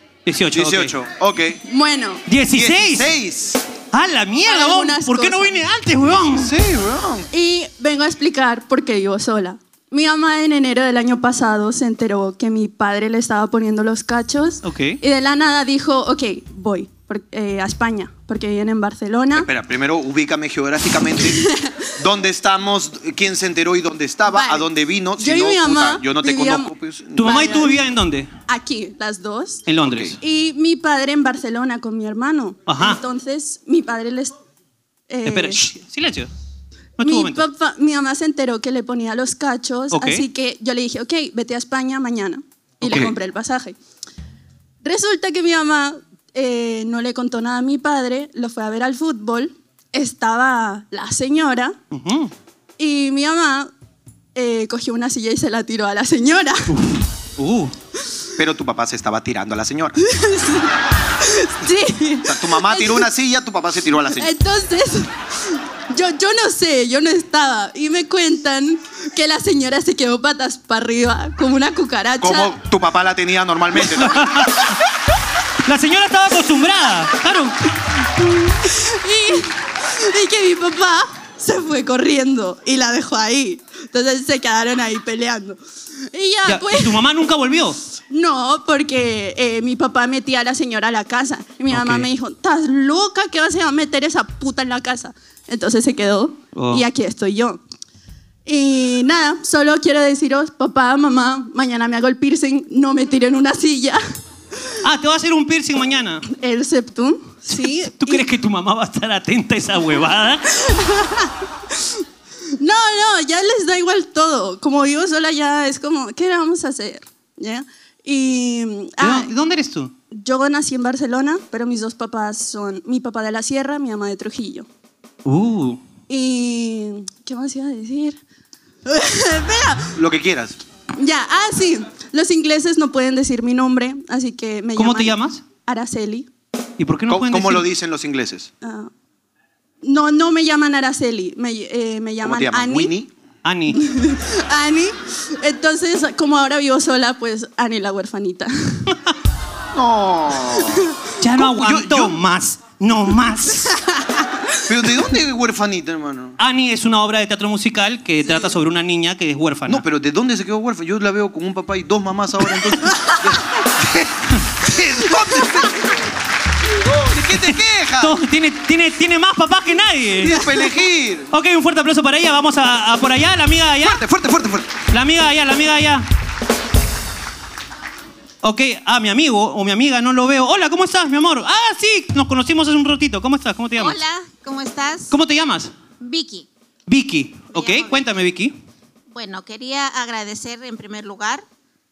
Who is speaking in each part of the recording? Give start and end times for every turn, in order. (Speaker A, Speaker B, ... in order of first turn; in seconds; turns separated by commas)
Speaker A: 0.3-0.9, Speaker B: 0.5-1.6, Speaker C: 1.6-2.2, Speaker A: 2.3-3.1, Speaker B: 2.5-3.6, Speaker A: 3.9-6.5, Speaker C: 4.5-5.5, Speaker B: 6.3-7.3, Speaker C: 7.3-19.5, Speaker A: 14.6-15.0, Speaker B: 19.3-27.6, Speaker C: 21.2-21.7, Speaker C: 24.3-26.7, Speaker A: 27.2-28.3, Speaker C: 27.2-27.8, Speaker C: 28.5-29.6, Speaker A: 29.7-30.2, Speaker B: 29.9-30.1, Speaker C: 30.2-34.4, Speaker A: 32.7-33.0, Speaker C: 35.1-35.6, Speaker A: 35.2-36.3, Speaker A: 37.0-37.5, Speaker C: 37.0-43.8, Speaker A: 39.9-40.3, Speaker A: 42.8-43.1, Speaker B: 42.9-43.1, Speaker C: 44.8-51.8, Speaker A: 51.9-52.3, Speaker C: 52.8-53.7, Speaker C: 54.4-56.7, Speaker A: 56.7-57.7, Speaker B: 58.4-60.0, Speaker C: 60.0-63.1, Speaker B: 62.2-64.3, Speaker C: 64.2-72.5, Speaker B: 72.2-74.3, Speaker A: 73.8-74.8, Speaker A: 75.7-77.7, Speaker C: 78.2-85.6, Speaker C: 86.1-87.0, Speaker A: 86.5-87.8, Speaker C: 88.1-97.6, Speaker A: 91.7-92.1, Speaker A: 96.5-96.9, Speaker C: 98.5-104.0, Speaker A: 104.8-106.2, Speaker C: 106.3-108.2, Speaker A: 107.5-110.5, Speaker C: 110.6-112.0, Speaker C: 112.6-119.3, Speaker A: 119.0-119.9, Speaker C: 120.1-124.7, Speaker A: 125.2-125.8, Speaker C: 126.1-128.2, Speaker C: 128.8-130.0, Speaker B: 130.0-130.6, Speaker C: 131.0-136.3, Speaker A: 134.8-135.4, Speaker A: 136.8-137.7, Speaker B: 137.1-138.5, Speaker C: 138.6-138.9, Speaker C: 139.8-142.9, Speaker B: 142.2-143.1, Speaker A: 143.4-143.8, Speaker C: 143.7-148.8, Speaker B: 149.7-152.2, Speaker A: 151.2-153.7, Speaker B: 154.7-156.4, Speaker A: 156.4-159.8, Speaker B: 159.7-164.1, Speaker B: 164.6-165.8, Speaker B: 166.9-168.2, Speaker A: 167.3-170.7, Speaker B: 170.2-171.3, Speaker A: 171.3-174.0, Speaker B: 173.8-174.7, Speaker A: 174.9-176.1, Speaker A: 178.4-184.0, Speaker D: 183.8-185.2, Speaker A: 185.1-185.7, Speaker D: 186.0-186.5, Speaker A: 186.9-188.6, Speaker D: 187.5-188.1, Speaker D: 189.1-191.4